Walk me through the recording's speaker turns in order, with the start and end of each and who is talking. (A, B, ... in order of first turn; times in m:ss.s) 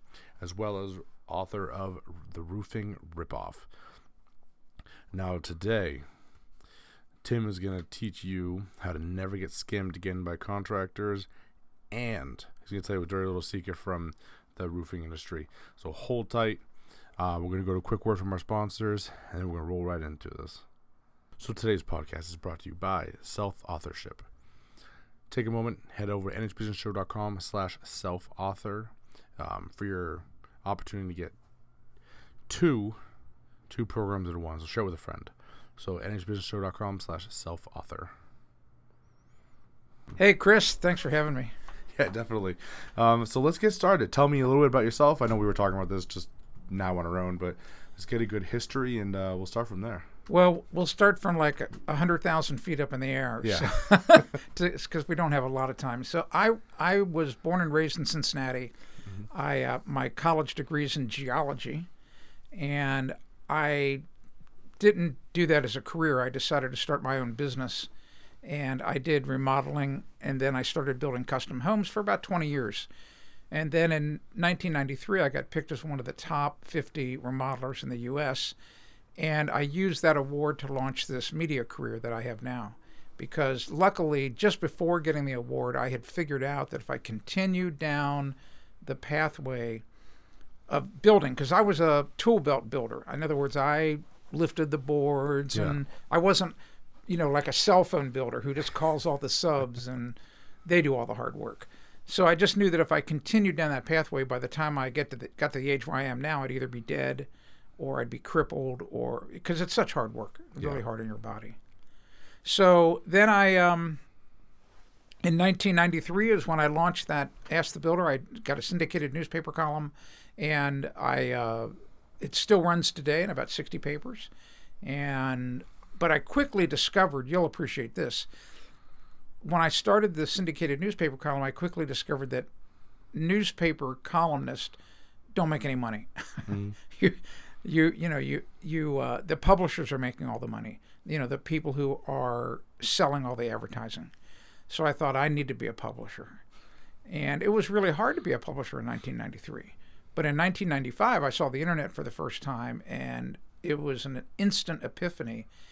0:00.4-0:03.7 A
0:05.1-0:06.0 A
0:07.2-0:11.3 A
0:11.9-0:16.6 A
0:17.2-0:20.6 A
0:21.4-0:24.2 A
0:25.3-0:31.4 A
0:32.5-0:33.0 A
0:33.7-0:38.1 A
0:40.2-0:41.5 B
0:41.9-0:50.1 A
0:50.3-0:58.7 B
0:53.4-0:54.4 A
0:59.3-1:01.9 B
1:02.5-1:04.0 B
1:04.8-1:07.9 B
1:08.4-1:12.9 B
1:13.5-1:18.6 B
1:19.2-1:29.8 B
1:30.7-1:36.6 B
1:37.1-1:51.6 B
1:52.4-1:54.0 B
1:55.2-2:04.3 B
2:04.8-2:08.3 B
2:09.4-2:12.5 B
2:13.1-2:14.8 B
2:15.4-2:24.1 B
2:16.5-2:16.8 A
2:24.7-2:26.4 B
2:27.1-2:35.5 B